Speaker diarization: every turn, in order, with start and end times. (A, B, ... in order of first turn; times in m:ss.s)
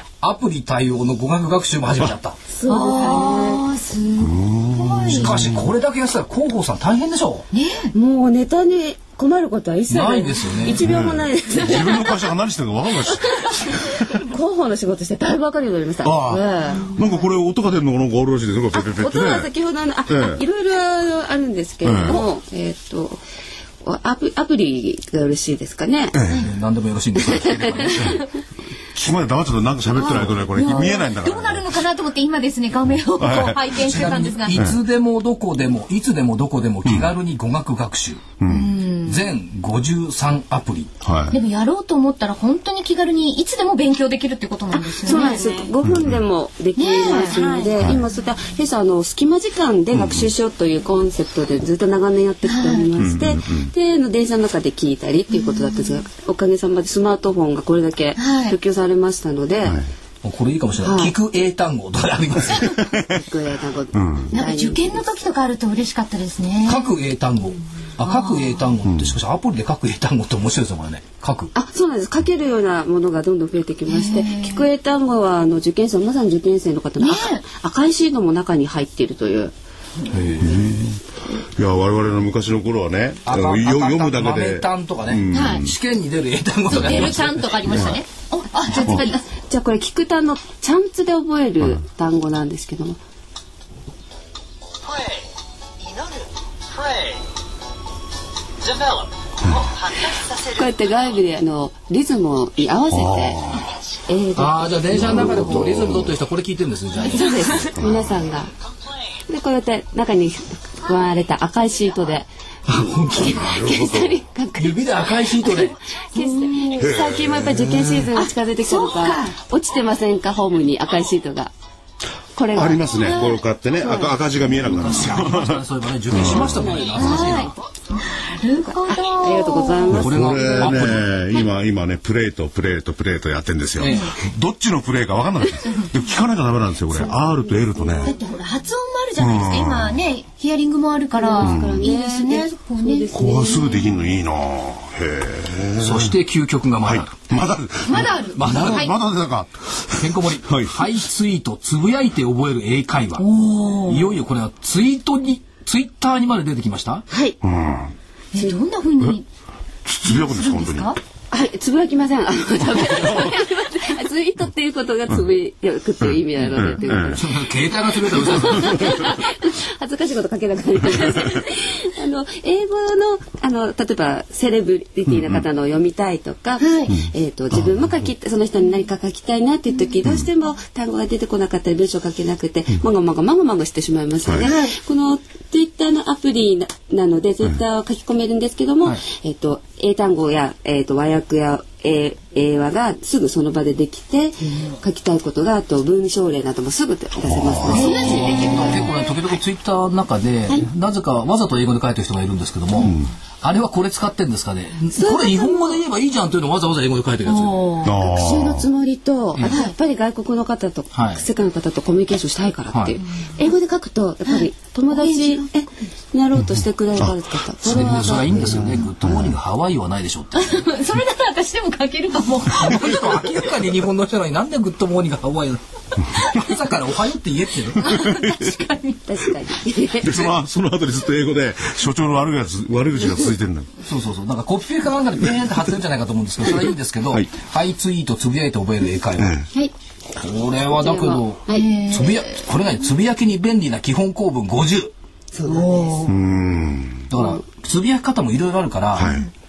0:00.2-0:02.4 A
0:02.5-0:03.7 B
0:02.7-0:05.4 C
0:04.2-0:05.6 D
0:05.0-0:07.5 A
0:07.5-0:07.9 C
0:07.9-0:12.3 B
0:09.9-0:10.8 A
0:10.7-0:14.2 D
0:13.1-0:17.2 B
0:16.0-0:19.5 D
0:18.7-0:23.2 B
0:20.1-0:20.4 D
0:21.8-0:22.2 D
0:23.8-0:26.2 B
0:26.1-0:26.5 D
0:26.4-0:28.2 A
0:27.3-0:28.2 B
0:28.9-0:31.7 D
0:30.0-0:34.6 C
0:33.2-0:34.0 D
0:33.8-0:38.2 A
0:38.4-0:38.8 D
0:38.4-0:39.3 C
0:39.0-0:40.9 A
0:41.0-0:41.4 D
0:41.3-0:45.7 C
0:44.9-0:59.8 B
0:45.8-0:46.2 D
0:46.8-0:47.7 C
0:49.9-0:50.3 D
0:52.4-0:52.8 C
0:53.0-0:53.7 D
0:55.3-0:55.6 C
0:58.2-0:58.6 C
1:00.2-1:02.8 A
1:00.8-1:01.1 B
1:02.6-1:03.1 D
1:03.0-1:05.0 B
1:03.9-1:04.3 D
1:04.3-1:06.9 C
1:06.6-1:11.5 A
1:08.0-1:08.7 C
1:08.8-1:09.1 D
1:11.5-1:19.5 B
1:13.9-1:14.6 C
1:17.0-1:17.4 C
1:20.1-1:25.7 D
1:23.2-1:27.8 A
1:25.3-1:25.6 C
1:26.7-1:29.2 C
1:26.7-1:28.0 D
1:28.6-1:33.0 B
1:40.4-1:43.4 B
1:42.9-1:43.6 D
1:44.0-1:45.4 B
1:44.3-1:47.7 A
1:45.0-1:46.1 D
1:47.0-1:48.5 B
1:47.2-1:47.7 C
1:47.8-1:48.1 D
1:49.3-1:52.3 B
1:52.7-1:53.5 A
1:53.1-2:01.5 B
1:53.3-1:54.2 D
1:54.6-1:55.8 A
1:56.1-1:56.8 C
1:56.8-1:58.1 D
1:58.2-1:59.4 C
2:02.3-2:04.1 B
2:02.5-2:07.2 D
2:03.0-2:03.4 C
2:04.6-2:07.5 A
2:06.9-2:10.0 C
2:08.7-2:10.9 B
2:09.9-2:18.1 D
2:09.9-2:11.1 A
2:13.8-2:14.1 A
2:13.8-2:14.1 C
2:17.8-2:18.1 B
2:18.0-2:23.6 C
2:19.2-2:20.0 D
2:21.1-2:24.0 B
2:21.4-2:21.9 D
2:23.1-2:26.1 D
2:25.8-2:27.1 A
2:26.9-2:30.7 D
2:27.8-2:28.9 C
2:28.3-2:28.9 A
2:30.0-2:33.3 A
2:33.2-2:34.1 C
2:33.8-2:37.0 A
2:37.4-2:37.9 D
2:38.3-2:39.2 C
2:39.8-2:40.9 D
2:40.0-2:41.0 C
2:41.3-2:47.3 B
2:46.1-2:47.2 D
2:47.1-2:48.9 A
2:48.0-3:18.8 B
2:48.6-2:48.9 D
2:55.1-2:55.4 D
2:56.6-2:56.9 C
3:04.2-3:04.5 D
3:04.4-3:04.7 C
3:17.2-3:18.0 D
3:17.7-3:18.9 C
3:17.7-3:27.7 A
3:22.8-3:23.1 D
3:24.9-3:25.8 B
3:27.2-3:27.9 C
3:27.8-3:28.6 D
3:27.9-3:38.7 B
3:29.4-3:29.7 C
3:30.9-3:31.2 A
3:32.7-3:33.0 A
3:34.2-3:35.4 C
3:36.4-3:37.1 D
3:37.6-3:40.6 A
3:37.8-3:39.3 D
3:40.4-3:43.4 C
3:42.2-3:47.9 A
3:47.8-3:49.0 C
3:47.8-3:48.6 D
3:49.0-3:50.3 B
3:50.0-3:53.7 D
3:53.8-3:59.4 A
3:59.2-3:59.5 D
4:00.2-4:04.9 A
4:00.7-4:01.6 B
4:01.5-4:02.4 C
4:05.3-4:06.1 B
4:05.4-4:06.1 C
4:06.1-4:07.1 D
4:07.1-4:09.2 A
4:08.9-4:09.3 D